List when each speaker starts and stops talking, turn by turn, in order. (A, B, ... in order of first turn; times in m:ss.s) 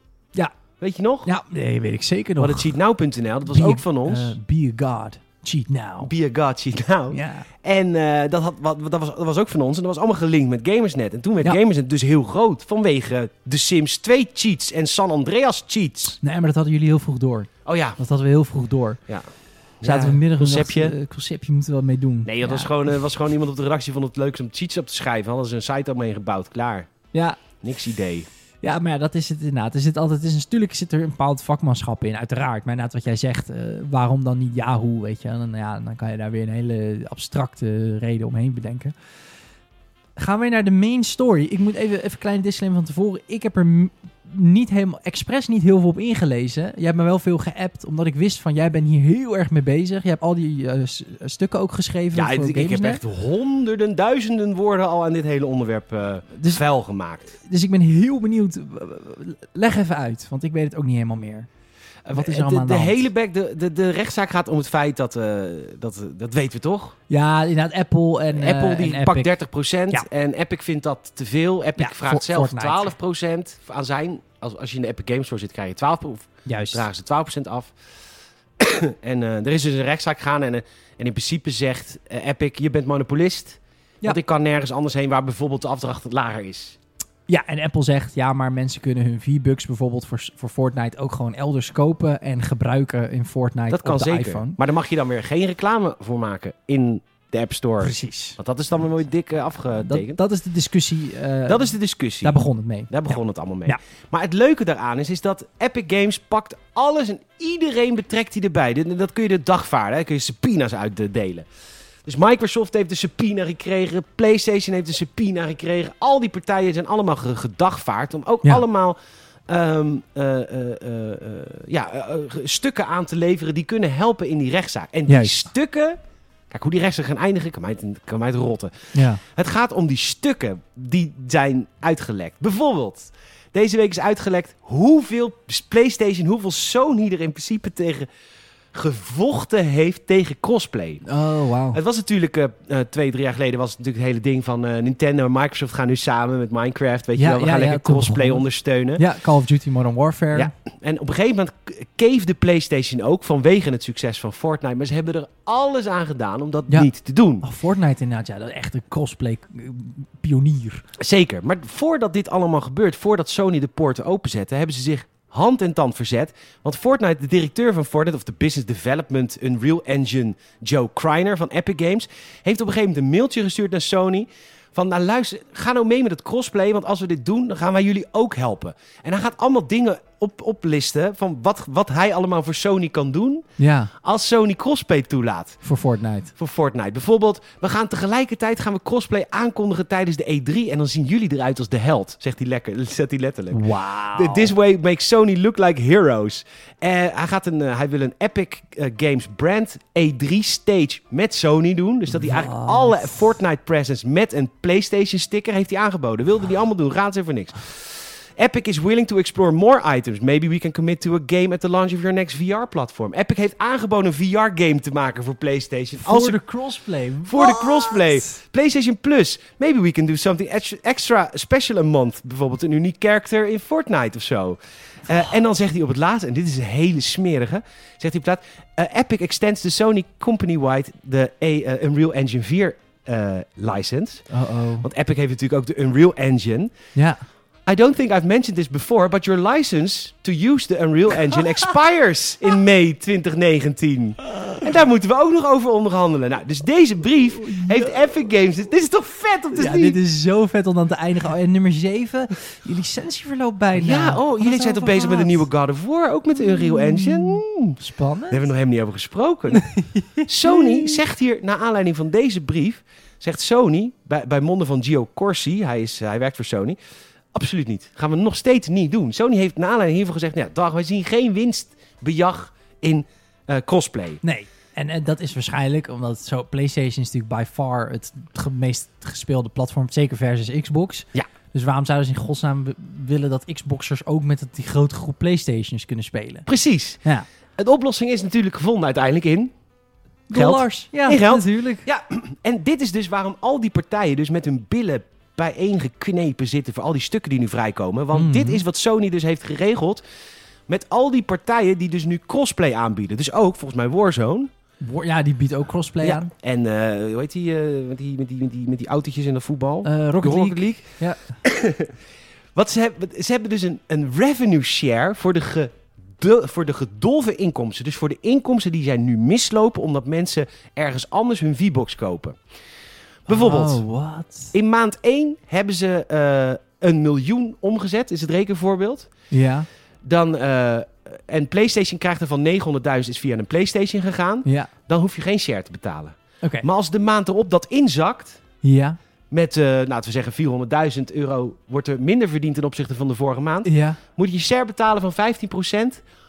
0:00.8-0:01.3 A
0:01.2-0:02.8 B
0:02.4-0:04.4 A
0:03.4-0:06.1 B
0:06.0-0:16.2 A
0:07.1-0:07.5 B
0:16.2-0:19.0 B
0:17.6-0:18.0 A
0:19.8-0:21.0 A
0:19.8-0:22.7 B
0:22.2-0:26.9 A
0:27.1-0:27.4 B
0:27.6-0:28.3 A
0:28.6-0:38.9 B
0:40.2-0:53.0 B
0:52.1-0:57.3 A
0:56.3-0:56.6 B
0:57.4-1:01.5 B
1:02.0-1:07.0 A
1:02.1-1:03.1 B
1:07.1-1:09.3 B
1:08.3-1:17.7 A
1:11.8-1:12.9 B
1:16.4-1:16.8 B
1:18.6-1:26.8 A
1:27.3-1:34.6 B
1:33.7-1:40.2 A
1:37.8-1:38.4 B
1:39.8-1:43.8 B
1:41.5-1:42.4 A
1:42.9-1:51.5 A
1:52.0-1:59.0 A
1:59.5-2:06.0 A
2:05.1-2:05.4 B
2:06.5-2:18.1 A
2:08.9-2:09.2 B
2:18.7-2:21.0 A
2:21.0-2:21.8 B
2:21.7-2:29.0 A
2:27.2-2:28.4 B
2:29.0-2:30.5 B
2:30.3-2:37.4 A
2:37.4-2:40.8 B
2:41.0-3:03.4 A
3:03.6-3:03.9 B
3:04.0-3:05.6 A
3:05.6-3:06.3 B
3:06.4-3:36.4 A
3:13.5-3:14.5 B
3:22.1-3:23.2 B
3:36.0-3:38.0 B
3:37.2-3:54.3 A
3:54.3-3:54.8 B
3:54.8-3:56.7 A
3:56.9-3:57.2 B
3:57.6-4:10.0 A
4:04.3-4:04.6 B
4:07.4-4:08.0 B
4:09.5-4:15.4 B
4:13.7-4:17.8 A
4:16.4-4:18.5 B
4:18.3-4:19.6 A
4:19.5-4:21.0 B
4:20.2-4:26.8 A
4:27.3-4:34.2 A
4:34.2-4:46.5 B
4:46.5-4:47.0 A
4:47.6-4:49.5 A
4:50.3-4:51.9 B
4:50.3-5:00.0 A
4:58.1-4:58.6 B
5:00.7-5:04.5 A
5:04.8-5:06.3 B
5:06.0-5:10.9 A
5:09.8-5:11.4 B
5:11.4-5:11.9 A
5:12.5-5:22.4 A
5:23.3-5:23.8 A
5:23.3-5:24.5 B
5:24.5-5:29.1 A
5:29.3-5:29.7 B
5:30.0-5:38.4 A
5:34.4-5:34.7 B
5:36.4-5:36.7 B
5:38.6-5:39.0 B
5:39.3-5:46.0 A
5:43.6-5:44.0 B